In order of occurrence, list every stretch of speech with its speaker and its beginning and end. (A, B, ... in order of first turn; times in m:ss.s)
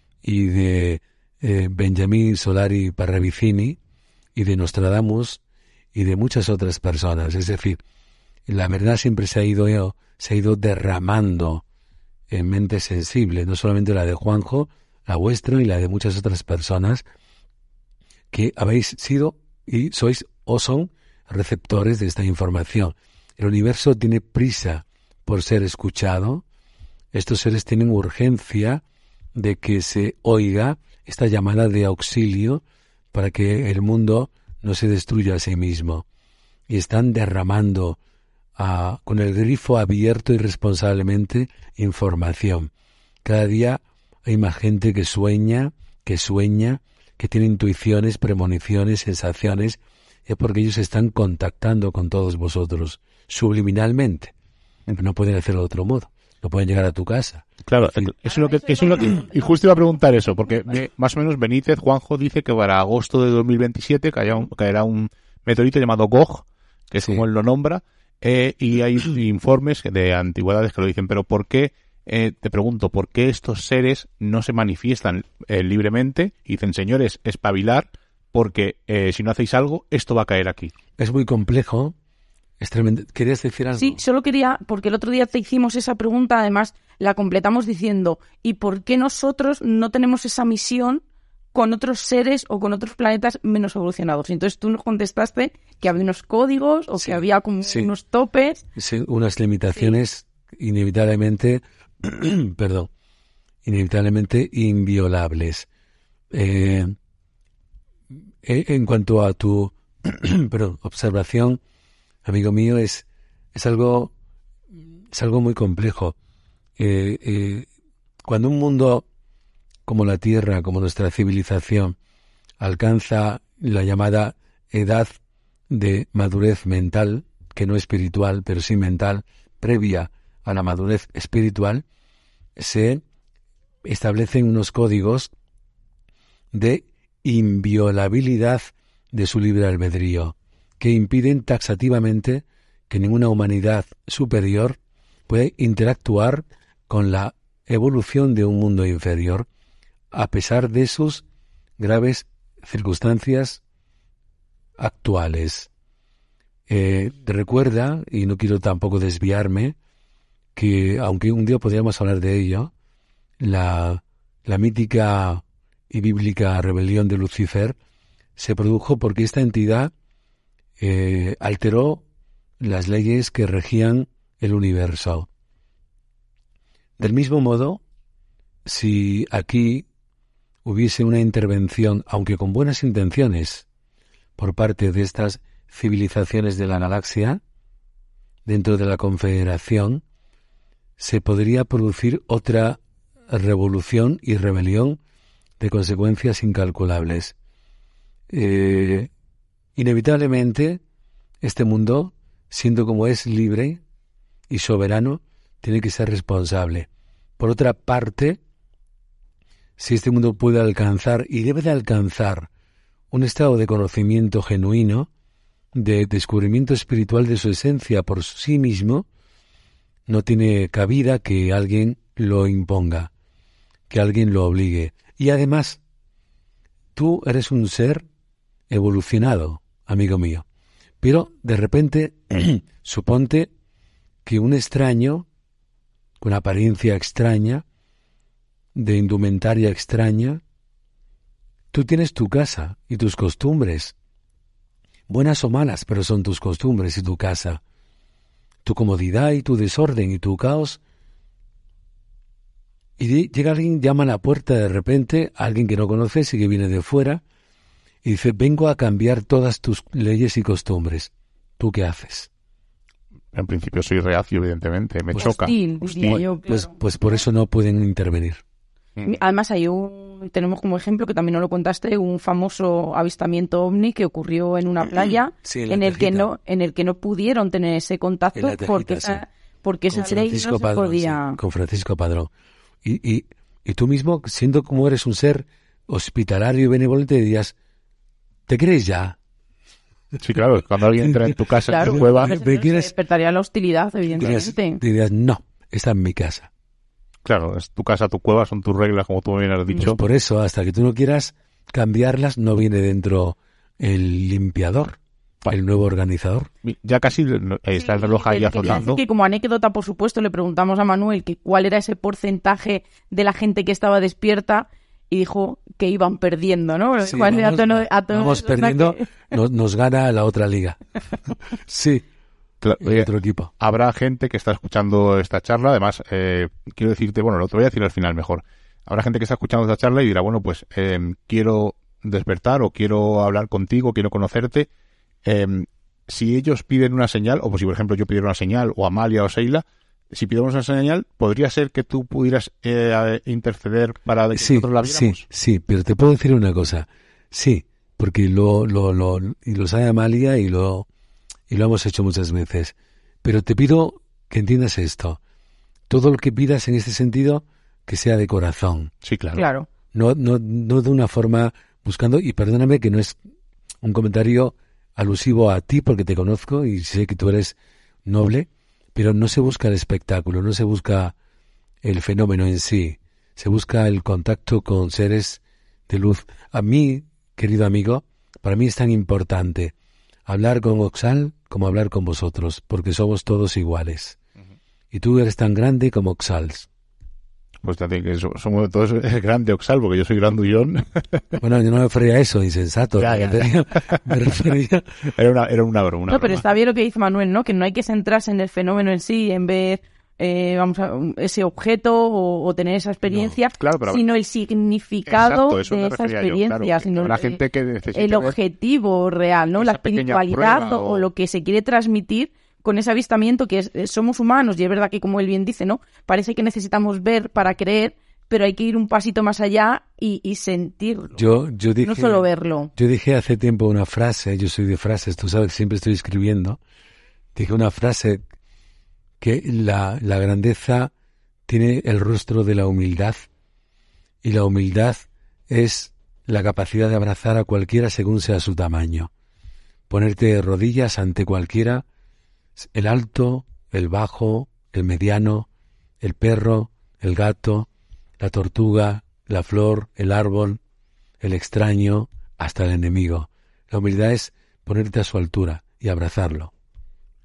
0:00.2-0:03.8 A
0:04.4-0:05.4 A
0:05.9-0:07.8 A
0:08.5-0:11.6 A
0:12.3-0:17.1 A
0:18.3-0:26.4 A
0:27.1-0:28.8 A
0:29.3-0:36.0 A
0:36.7-0:38.0 A
0:38.6-0:42.7 A
0:43.2-0:54.3 A
0:54.9-0:58.1 A
0:57.7-1:20.7 B
1:07.0-1:07.2 A
1:21.0-1:22.0 A
1:22.6-1:24.0 A
1:23.8-1:31.0 C
1:31.5-1:38.6 C
1:37.0-1:37.9 A
1:38.8-1:42.9 A
1:43.6-1:45.7 A
1:46.3-1:46.9 A
1:48.4-1:51.6 A
1:52.2-1:54.1 A
1:55.1-1:56.2 A
1:56.8-1:57.7 A
1:58.2-1:59.1 A
1:59.9-2:02.0 A
2:02.6-2:05.1 A
2:05.7-2:11.8 A
2:12.6-2:13.0 A
2:13.8-2:15.3 A
2:16.5-2:29.5 A
2:30.1-2:31.2 A
2:31.8-2:33.6 A
2:34.8-2:35.7 A
2:36.7-2:39.8 A
2:40.6-2:42.7 A
2:43.4-2:47.8 A
2:48.4-2:49.9 A
2:50.8-2:52.0 A
2:52.6-2:55.3 A
2:57.0-2:57.8 A
2:58.6-2:59.9 A
3:00.6-3:03.7 A
3:04.4-3:07.4 A
3:08.4-3:10.0 A
3:11.0-3:15.0 A
3:15.6-3:17.4 A
3:18.3-3:19.1 A
3:19.8-3:20.8 A
3:21.4-3:23.8 A
3:24.5-3:26.9 A
3:27.4-3:28.4 A
3:29.8-3:32.5 A
3:33.1-3:35.1 A
3:35.7-3:39.1 A
3:40.1-3:43.1 A
3:43.9-3:45.8 A
3:47.0-3:48.0 A
3:48.7-3:50.4 A
3:51.0-3:53.5 A
3:54.2-3:55.3 A
3:56.2-3:57.6 A
3:58.8-4:00.4 A
4:01.7-4:03.9 A
4:05.1-4:07.6 A
4:08.6-4:10.8 A
4:13.0-4:17.2 A
4:18.0-4:22.3 A
4:23.3-4:26.2 B
4:25.2-4:26.7 C
4:26.5-4:28.4 A
4:29.0-4:41.4 C
4:35.4-4:36.3 A
4:38.4-4:39.2 A
4:39.9-4:42.3 A
4:42.8-4:47.6 A
4:48.5-4:49.2 A
4:50.2-4:52.4 B
4:51.0-4:52.9 A
4:51.7-4:54.8 C
4:54.2-4:56.5 A
4:57.2-5:00.0 B
4:59.7-5:06.5 A
5:06.6-5:09.0 B
5:07.8-5:19.1 C
5:17.0-5:22.0 A
5:22.6-5:34.7 B
5:22.8-5:23.5 A
5:35.2-5:45.2 B
5:44.3-5:50.9 A
5:51.5-5:55.2 A
5:55.9-5:58.9 A
5:59.0-5:59.4 B
5:59.4-5:59.7 C
5:59.9-6:03.2 A
6:03.8-6:11.1 A
6:11.8-6:19.7 A
6:20.3-6:24.2 A
6:24.9-6:26.7 A
6:27.6-6:31.4 B
6:31.4-6:35.0 A
6:33.0-6:34.2 B
6:35.1-6:36.4 B
6:36.1-6:47.4 C
6:43.1-6:44.0 B
6:45.1-6:48.4 B
6:47.9-7:01.2 C
6:49.6-6:51.1 B
7:01.2-7:06.6 A
7:01.8-7:02.7 C
7:07.4-7:08.2 A
7:09.2-7:10.9 A
7:11.5-7:13.3 A
7:14.2-7:19.1 A
7:19.9-7:21.8 A
7:22.6-7:25.5 A
7:26.0-7:27.7 A
7:28.2-7:30.6 A
7:31.2-7:36.5 A